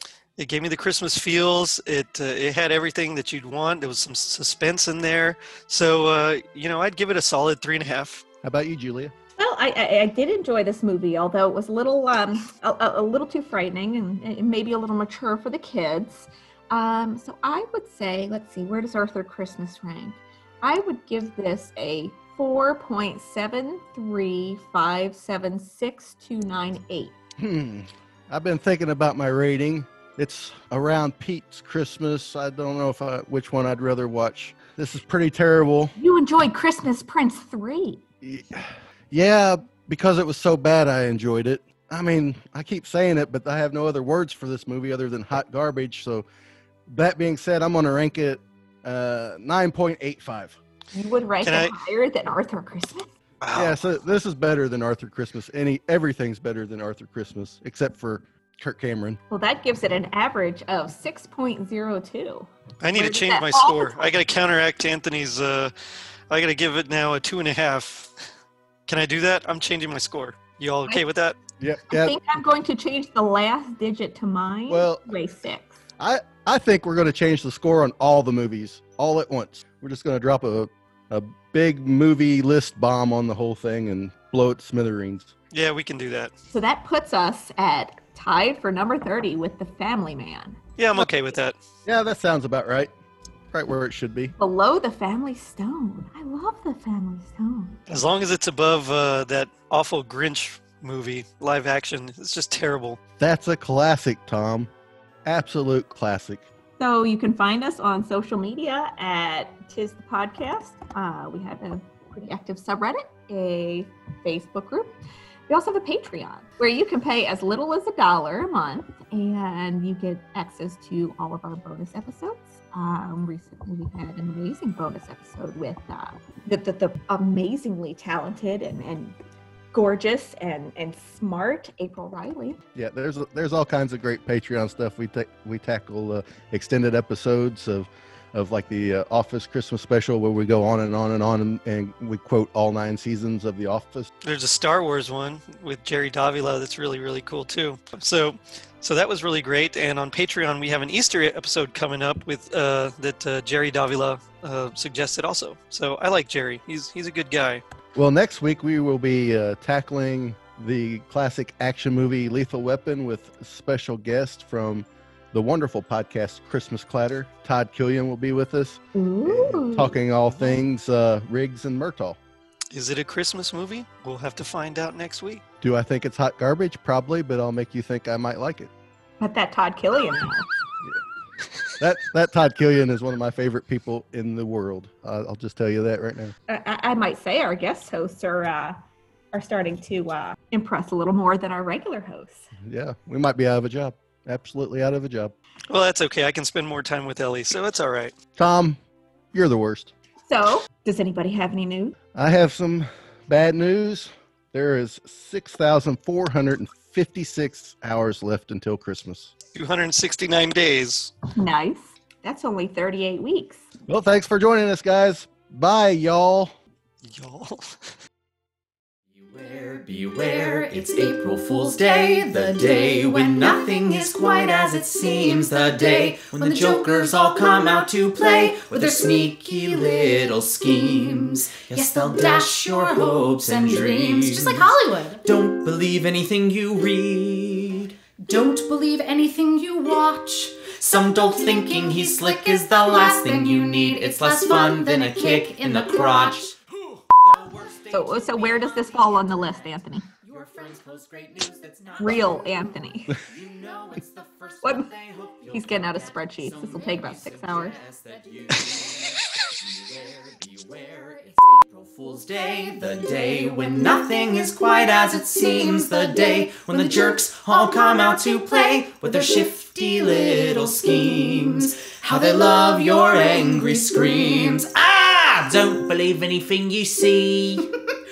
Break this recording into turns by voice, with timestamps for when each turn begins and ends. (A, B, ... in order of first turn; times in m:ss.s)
0:00.4-0:08.2 A
0:08.4-0:09.1 B
0:09.4-0:27.1 C
0:27.4-0:35.9 B
0:36.0-0:38.0 C
0:38.2-0:46.2 B
0:46.9-0:50.6 B
0:50.9-0:53.1 C
0:51.4-0:51.7 A
0:53.4-0:53.8 A
0:53.5-0:59.2 B
0:59.3-1:04.1 C
1:02.8-1:05.7 A
1:06.3-1:08.1 A
1:08.9-1:11.4 A
1:11.6-1:12.2 B
1:11.9-1:15.8 C
1:14.7-1:15.1 B
1:16.0-1:25.3 B
1:25.5-1:26.3 A
1:26.5-1:30.6 C
1:30.8-1:31.6 A
1:31.8-1:32.9 B
1:33.5-1:34.3 B
1:34.4-1:37.8 C
1:37.9-1:43.0 A
1:43.2-1:44.7 B
1:45.2-1:46.4 B
1:46.8-1:55.0 C
1:55.5-2:09.2 C
2:09.7-2:12.6 C
2:12.8-2:24.1 B
2:24.2-2:37.6 A
2:37.9-2:52.2 B
2:48.9-2:50.0 C
2:52.7-2:55.4 A
2:55.6-2:58.7 B
2:59.2-3:00.4 C
3:01.8-3:06.3 B
3:06.5-3:08.8 C
3:09.3-3:12.4 C
3:12.7-3:15.3 B
3:15.7-3:18.1 A
3:18.4-3:18.8 B
3:19.3-3:19.9 B
3:20.2-3:21.9 C
3:22.1-3:29.3 B
3:29.5-3:31.1 A
3:31.4-3:33.6 C
3:33.9-3:36.5 B
3:37.0-3:37.6 A
3:39.1-3:58.5 D
3:39.6-3:55.4 E
3:58.2-4:06.6 E
4:00.9-4:06.5 D
4:07.1-4:09.6 D
4:07.9-4:10.1 C
4:10.2-4:12.6 D
4:10.3-4:11.9 E
4:12.0-4:13.2 C
4:13.2-4:37.6 D
4:14.6-4:14.9 C
4:15.5-4:17.8 C
4:17.6-4:18.6 E
4:21.2-4:21.5 E
4:22.0-4:34.7 E